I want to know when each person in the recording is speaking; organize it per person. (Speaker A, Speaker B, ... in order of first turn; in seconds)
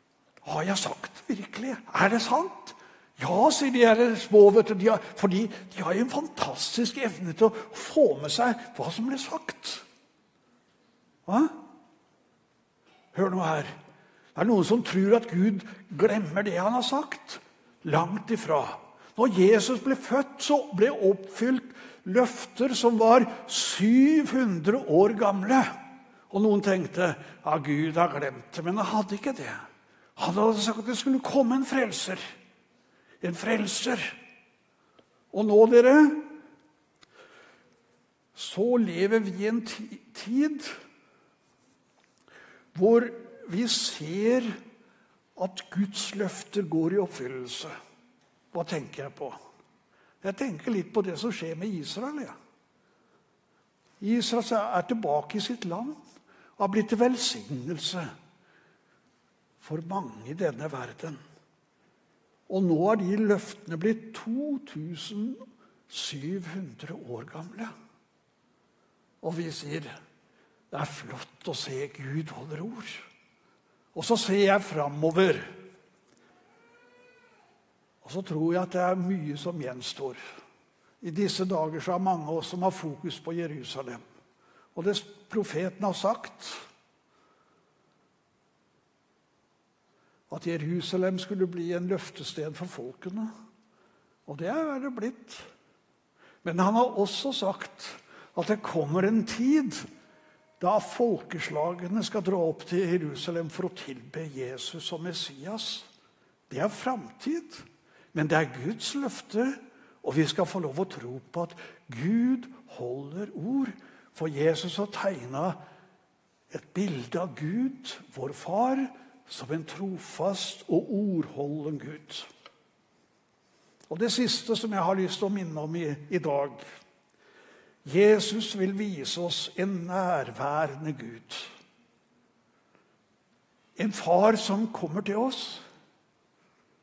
Speaker A: 0.4-9.8, 11.3-11.6, 13.1-13.7, 14.3-25.7, 26.3-29.6, 30.2-32.2, 33.2-34.2, 35.3-36.3, 38.4-40.7, 42.7-44.5, 45.4-47.7, 48.5-49.4, 50.2-52.3, 54.0-56.0, 56.6-58.1, 59.6-61.2, 62.5-67.7, 69.2-69.9, 70.7-73.1, 73.9-75.5, 78.0-80.2, 81.0-84.0, 84.8-86.6, 90.3-93.3, 94.3-95.5, 96.4-99.8, 100.6-105.9, 106.5-115.6, 116.5-122.3, 123.9-126.6, 127.8-131.5, 133.8-135.6